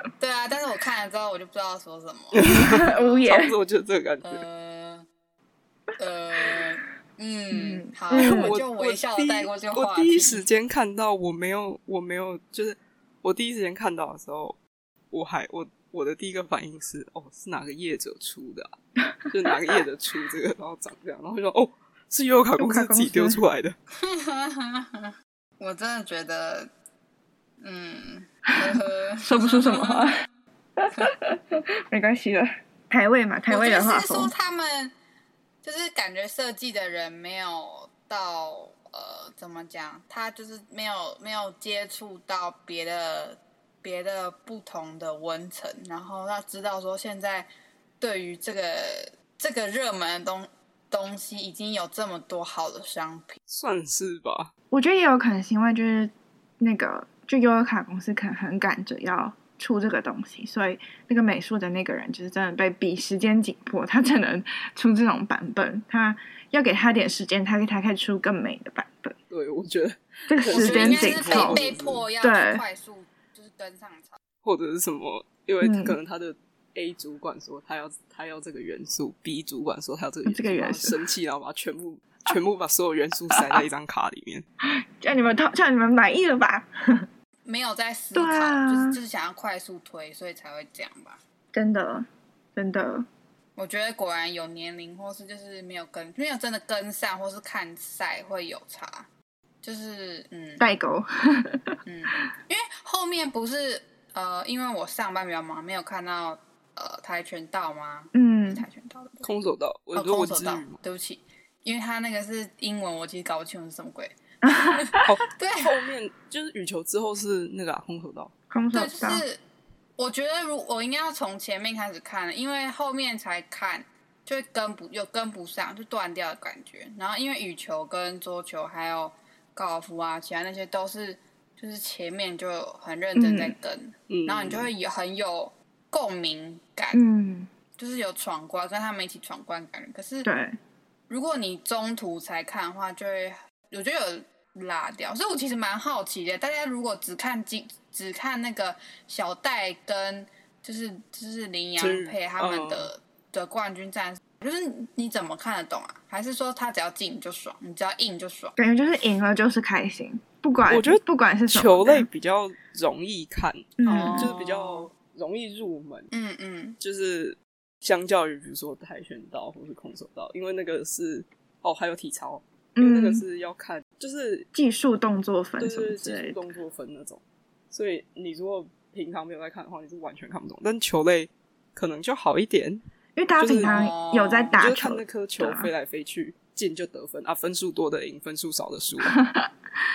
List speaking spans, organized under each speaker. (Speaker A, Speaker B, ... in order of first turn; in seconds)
Speaker A: 0.2-3.3, 4.2-5.1, 6.0-10.4, 24.0-26.7, 27.6-30.1, 33.5-34.9, 35.6-53.4, 70.5-74.2, 87.5-91.2, 93.6-99.1, 99.6-100.7, 101.9-109.3, 110.0-115.7, 118.7-119.4, 120.0-137.0, 137.8-140.3, 141.1-158.6, 163.9-164.9, 166.1-166.8, 183.6-184.6
Speaker B: 2.3-4.4, 8.1-14.6, 15.1-18.7, 19.3-23.8, 53.5-54.5, 69.3-72.0, 74.4-84.5, 109.2-110.8, 115.0-118.3, 134.1-134.7, 151.8-152.9, 160.7-166.1, 166.8-174.5, 175.6-182.8, 183.4-183.9, 184.6-189.2
Speaker C: 2.4-3.5, 7.5-8.6, 22.6-23.4, 29.2-30.1, 30.8-34.3, 54.7-69.2, 70.3-71.6, 72.2-72.6, 75.6-76.0, 80.2-81.0, 83.4-83.6, 84.7-87.1, 88.2-89.0, 91.5-93.1, 100.6-101.7, 108.1-108.7, 114.4-115.1, 118.5-119.2, 133.2-133.6, 136.9-137.5, 140.2-140.6, 158.6-162.1, 163.8-164.3, 172.8-173.2, 174.5-176.4, 183.2-185.7, 189.0-189.5